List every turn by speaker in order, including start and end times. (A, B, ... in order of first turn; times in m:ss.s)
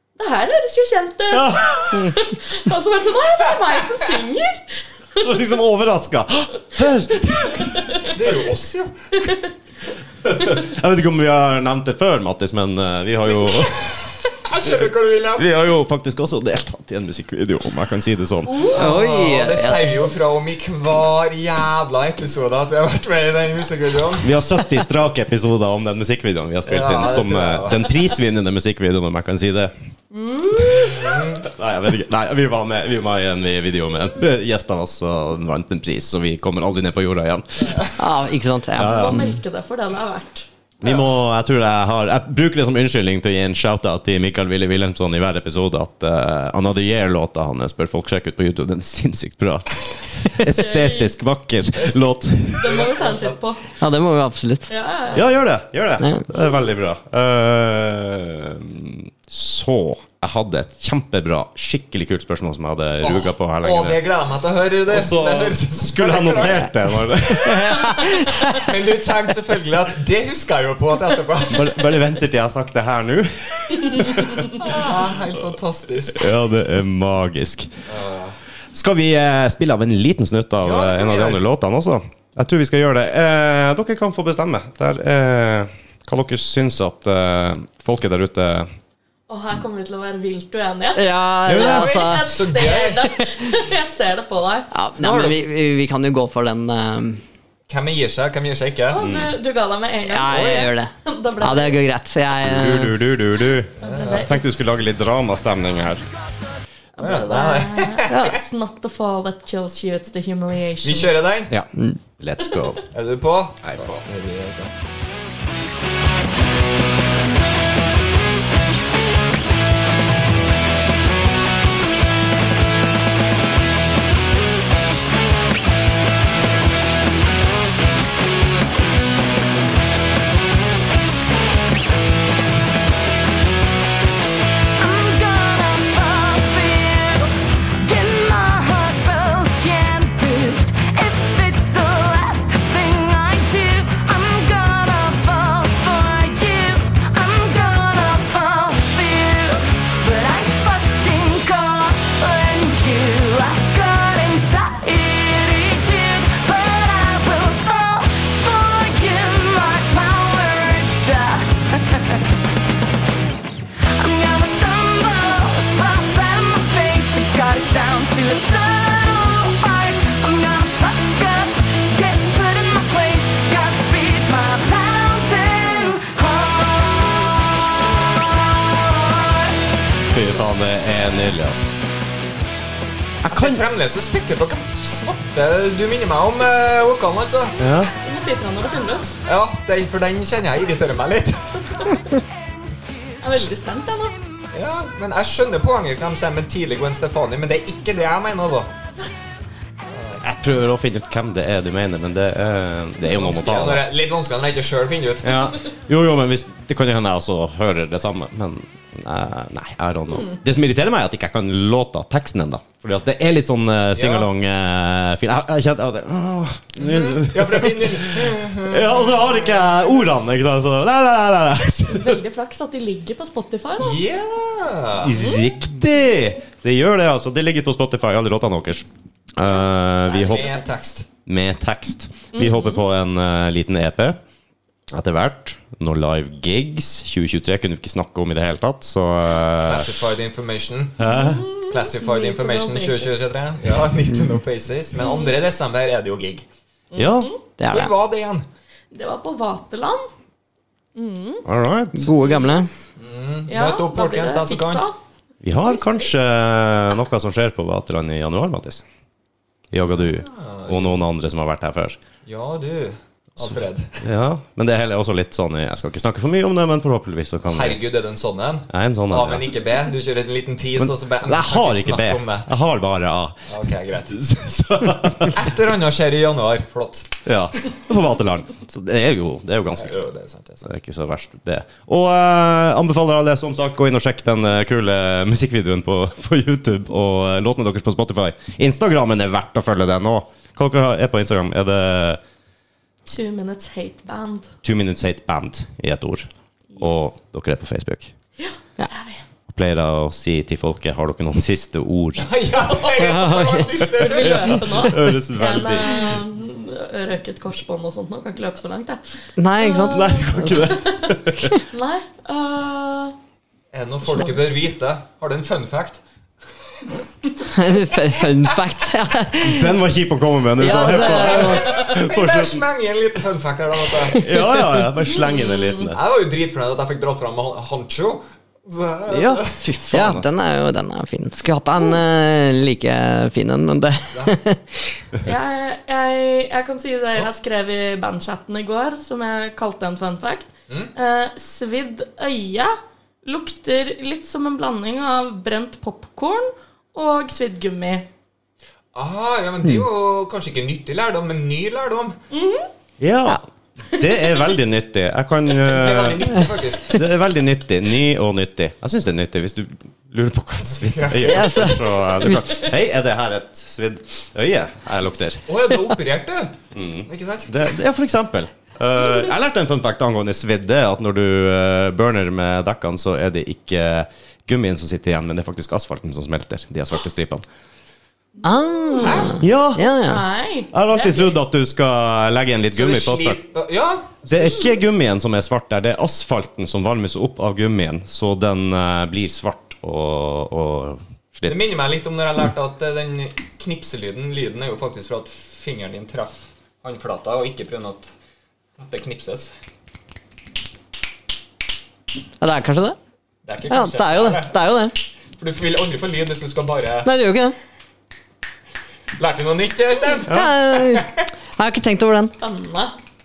0:00.2-0:05.3 A
0:01.3-0:02.2 B
0:05.2-0:07.9 B
0:07.2-0:08.1 A
0:08.0-0:08.9 C
0:10.2-0:13.9 B
0:13.7-0:15.5 C
0:15.4-0:18.7 B
0:18.5-0:18.8 A
0:18.6-0:24.3 C
0:18.7-0:20.0 D
0:24.2-0:29.7 B
0:26.7-0:28.0 C
0:30.1-0:31.3 A
0:30.7-0:31.5 C
0:31.4-0:37.9 B
0:38.0-0:39.4 D
0:38.8-0:39.4 B
0:38.8-0:40.5 A
0:40.8-0:52.8 B
0:50.4-0:51.1 A
0:52.6-0:53.4 C
0:52.6-0:53.6 A
0:53.8-0:54.7 D
0:54.7-0:55.3 A
0:55.1-1:04.0 B
0:56.0-0:56.3 D
1:03.0-1:11.7 C
1:04.9-1:08.0 B
1:07.4-1:08.7 D
1:11.5-1:14.7 B
1:14.4-1:16.3 C
1:16.1-1:17.7 B
1:17.9-1:18.4 C
1:18.7-1:28.7 B
1:20.6-1:21.4 C
1:29.3-1:34.7 A
1:31.0-1:32.4 D
1:31.5-1:33.1 C
1:34.7-1:37.2 D
1:35.0-1:35.4 C
1:37.7-1:39.0 C
1:38.9-1:41.8 A
1:39.0-1:39.3 B
1:40.1-1:43.0 D
1:42.4-1:46.0 B
1:43.8-1:44.3 C
1:43.8-1:44.5 A
1:47.0-1:51.2 A
1:47.0-1:48.2 C
1:48.1-1:48.4 D
1:50.8-1:51.5 C
1:51.5-1:52.9 B
1:52.9-1:54.7 C
1:53.6-1:54.0 B
2:14.8-2:42.2 E
2:43.9-2:59.8 E
3:00.1-3:01.8 B
3:03.2-3:03.6 B
3:03.3-3:07.7 C
3:07.6-3:07.9 B
3:08.0-3:09.2 A
3:09.3-3:11.8 C
3:11.9-3:13.2 E
3:13.2-3:14.2 A
3:14.5-3:18.7 C
3:19.9-3:20.2 C
3:20.2-3:23.8 B
3:23.0-3:25.3 C
3:25.2-3:42.2 B
3:34.0-3:34.3 C
3:36.9-3:39.8 C
3:41.9-3:44.0 A
3:43.8-3:45.2 C
3:45.0-3:50.6 B
3:50.0-3:51.1 C
3:51.3-3:54.2 B
3:52.3-3:52.8 A
3:54.9-4:00.2 B
3:59.6-4:01.0 C
4:01.0-4:01.4 B
4:01.0-4:03.2 A
4:01.7-4:06.5 C
4:05.0-4:05.4 A
4:06.9-4:07.4 A
4:07.0-4:07.3 B
4:07.6-4:07.9 D
4:07.7-4:08.4 C
4:08.9-4:10.1 A
4:11.0-4:11.4 A
4:11.4-4:12.1 B
4:12.0-4:12.7 D
4:12.2-4:12.9 A
4:13.0-4:14.8 C
4:13.5-4:15.0 A
4:15.4-4:18.8 B
4:19.7-4:22.0 B
4:20.3-4:20.9 C
4:22.3-4:24.0 C
4:23.4-4:27.8 B
4:27.5-4:32.5 C
4:28.7-4:29.5 B
4:30.8-4:33.6 B
4:33.5-4:34.3 C
4:34.1-4:35.4 B
4:34.9-4:37.2 C
4:37.2-4:40.0 B
4:39.7-4:40.7 C
4:40.6-4:52.2 B
4:53.1-4:54.5 A
4:54.6-4:56.3 B
4:56.8-4:58.1 B
4:58.4-4:59.2 A
4:59.5-5:02.3 B
5:02.2-5:04.9 C
5:02.7-5:09.0 A
5:03.0-5:03.7 D
5:04.2-5:06.2 B
5:09.4-5:10.7 D
5:09.6-5:13.2 A
5:09.9-5:11.6 B
5:13.7-5:16.0 C
5:17.5-5:19.7 D
5:19.4-5:22.6 B
5:20.6-5:21.7 D
5:20.7-5:24.2 C
5:24.1-5:26.0 B
5:24.2-5:24.9 D
5:25.1-5:25.9 A
5:25.9-5:29.5 C
5:29.1-5:30.3 B
5:29.9-5:34.9 D
5:35.2-5:48.1 A
5:48.9-5:52.2 C
5:52.3-5:52.7 A
5:53.0-6:06.0 B
5:55.6-5:57.0 C
6:00.8-6:01.8 C
6:01.2-6:02.6 D
6:05.5-6:07.5 C
6:06.7-6:17.5 B
6:18.4-6:19.4 A
6:18.4-6:20.2 D
6:19.0-6:19.4 C
6:19.4-6:19.9 B
6:20.0-6:21.4 A
6:20.7-6:23.4 B
6:22.7-6:24.7 C
6:24.3-6:31.7 B
6:31.5-6:38.1 C
6:38.8-6:39.5 C
6:42.4-6:43.0 D
6:43.4-6:44.6 C
6:43.7-6:45.0 D
6:45.4-6:47.1 C
6:47.0-6:47.6 D
6:49.2-6:51.2 C
6:50.3-6:52.3 D
6:50.3-6:50.5 B
6:52.4-6:53.0 A